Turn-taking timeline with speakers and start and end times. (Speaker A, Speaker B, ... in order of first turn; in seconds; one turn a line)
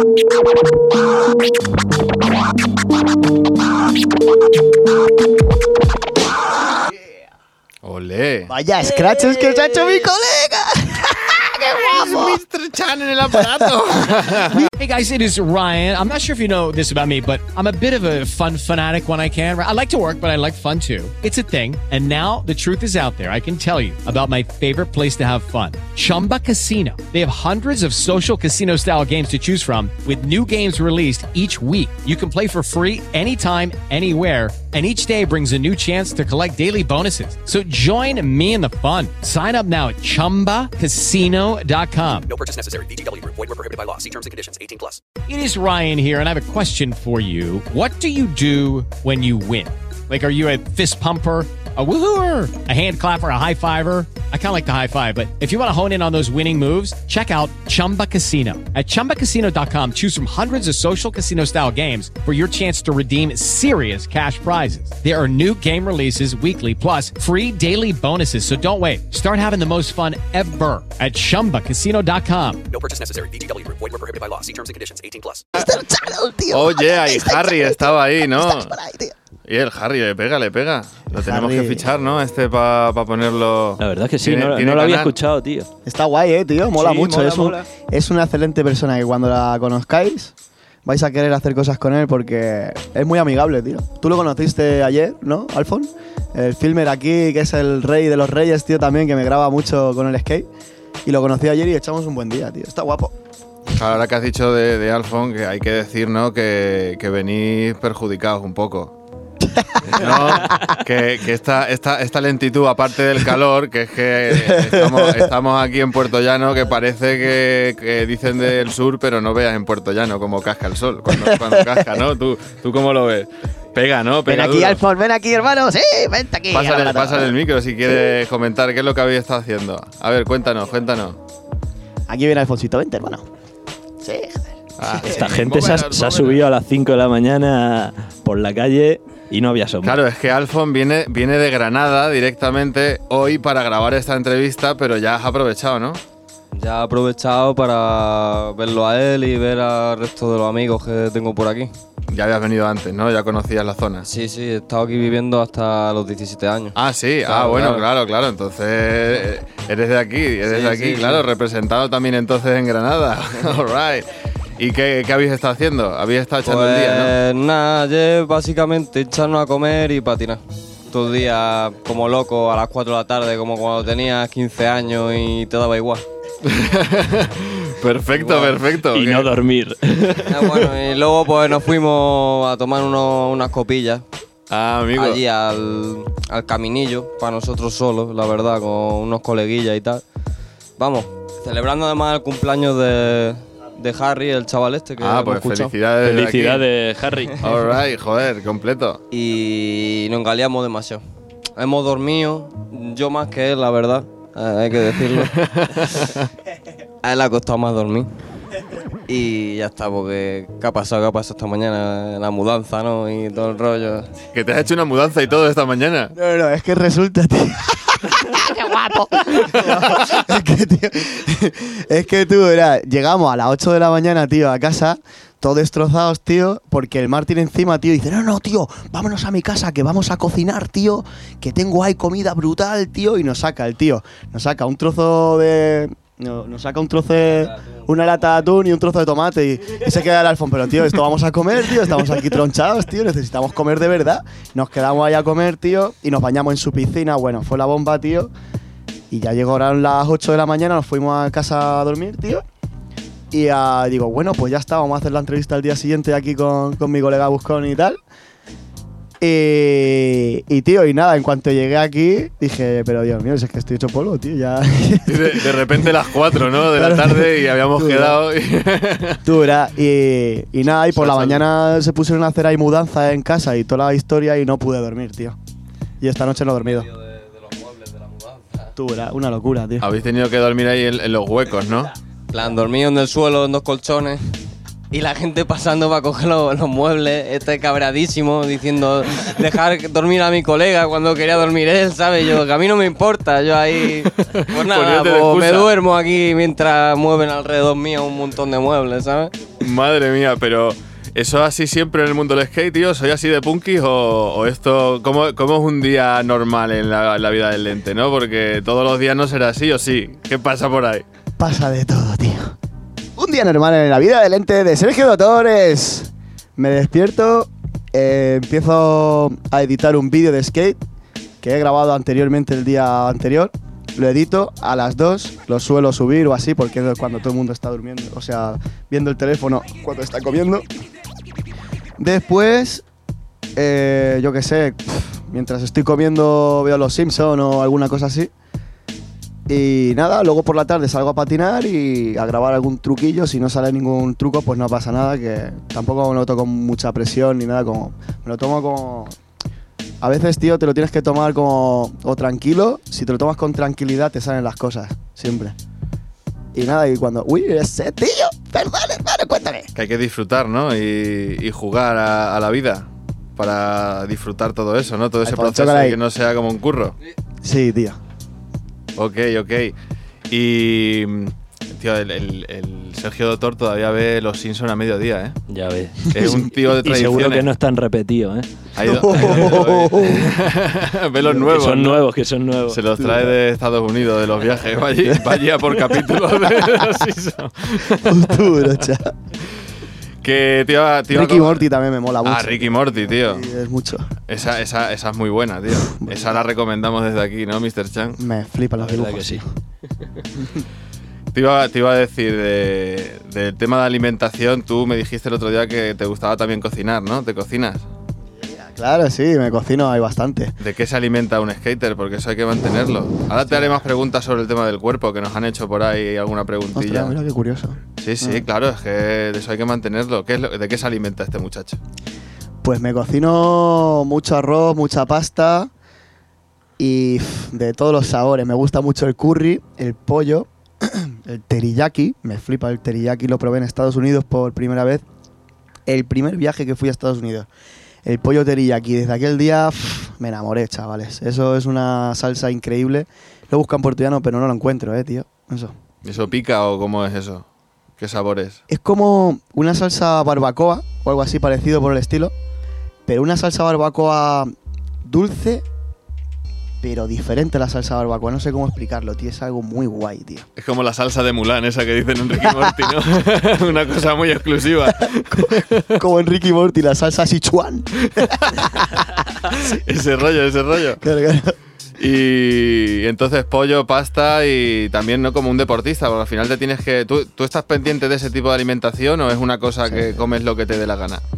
Speaker A: 7.8-8.5
Speaker B: 8.5-12.4
Speaker A: 11.9-14.7
Speaker B: 13.3-13.7
Speaker C: 14.8-42.3
Speaker D: 42.3-45.0
Speaker C: 45.3-72.6
Speaker D: 72.7-75.5
Speaker B: 75.6-79.2
Speaker A: 76.5-78.8
Speaker A: 79.5-85.1
Speaker B: 81.1-81.9
Speaker E: 83.8-85.7
Speaker B: 85.9-90.3
Speaker E: 86.8-87.6
Speaker B: 90.8-100.5
Speaker B: 101.0-103.2
Speaker A: 103.7-109.0
Speaker B: 109.5-110.6
Speaker A: 109.9-124.8
Speaker B: 114.3-115.3
Speaker B: 121.1-121.9
Speaker B: 124.3-127.3
Speaker A: 126.5-131.2
Speaker B: 132.1-133.3
Speaker B: 134.0-134.6
Speaker A: 134.8-136.4
Speaker E: 135.0-140.0
Speaker A: 139.8-146.0
Speaker F: 146.6-151.7
Speaker A: 152.1-154.1
Speaker F: 154.0-156.8
Speaker A: 156.8-167.1
Speaker F: 157.3-157.9
Speaker F: 160.4-161.2
Speaker F: 166.4-176.1
Speaker A: 176.4-179.3
Speaker F: 178.2-178.6
Speaker E: 178.9-180.7
Speaker F: 180.3-184.1
Speaker A: 184.5-185.2
Speaker F: 185.0-190.0
Speaker F: 190.8-195.7
Speaker A: 195.0-196.7
Speaker E: 196.0-197.4
Speaker A: 197.4-199.0
Speaker F: 199.1-201.0
Speaker F: 201.6-205.3
Speaker A: 205.2-206.3
Speaker F: 207.0-208.1
Speaker F: 209.1-214.1
Speaker A: 214.3-216.1
Speaker B: 216.2-248.3
Speaker B: 249.1-252.4
Speaker B: 253.3-258.0
Speaker B: 259.2-268.2
Speaker A: 265.1-269.2
Speaker B: 269.2-275.4
Speaker A: 270.9-271.4
Speaker B: 276.0-276.9
Speaker F: 277.1-278.7
Speaker B: 278.8-279.9
Speaker A: 279.8-281.9
Speaker F: 282.3-284.4
Speaker F: 284.9-299.3
Speaker A: 294.2-295.7
Speaker A: 299.6-311.1
Speaker B: 311.4-312.6
Speaker B: 313.2-320.8
Speaker B: 321.4-330.6
Speaker B: 332.0-332.8
Speaker B: 333.6-338.3
Speaker B: 339.5-349.2
Speaker B: 350.0-355.6
Speaker B: 356.5-359.7
Speaker A: 359.8-366.9
Speaker B: 365.2-366.0
Speaker B: 367.4-368.0
Speaker A: 369.0-369.8
Speaker A: 370.3-375.4
Speaker E: 375.5-379.8
Speaker A: 376.1-377.5
Speaker B: 376.2-376.5
Speaker A: 378.8-382.0
Speaker B: 378.8-380.3
Speaker E: 381.3-382.8
Speaker A: 382.7-388.7
Speaker B: 383.0-383.4
Speaker B: 385.1-385.4
Speaker B: 387.9-389.1
Speaker A: 390.2-391.7
Speaker B: 391.1-394.1
Speaker A: 392.2-393.5
Speaker A: 394.3-398.2
Speaker B: 396.0-396.4
Speaker B: 398.2-399.5
Speaker E: 398.8-399.4
Speaker A: 401.3-407.9
Speaker B: 408.3-410.5
Speaker A: 410.6-417.2
Speaker B: 413.5-413.8
Speaker B: 416.7-418.5
Speaker A: 418.0-421.8
Speaker B: 422.6-425.7
Speaker B: 426.8-435.1
Speaker B: 435.9-437.5
Speaker B: 438.1-445.8
Speaker A: 446.0-447.5
Speaker A: 448.0-448.6
Speaker B: 448.7-452.3
Speaker B: 453.1-454.5
Speaker B: 455.0-455.6
Speaker B: 456.8-460.5
Speaker A: 460.6-465.9
Speaker B: 465.0-468.6
Speaker A: 468.0-468.7
Speaker A: 469.5-471.0
Speaker B: 471.0-471.6
Speaker A: 472.0-481.2
Speaker B: 479.9-480.3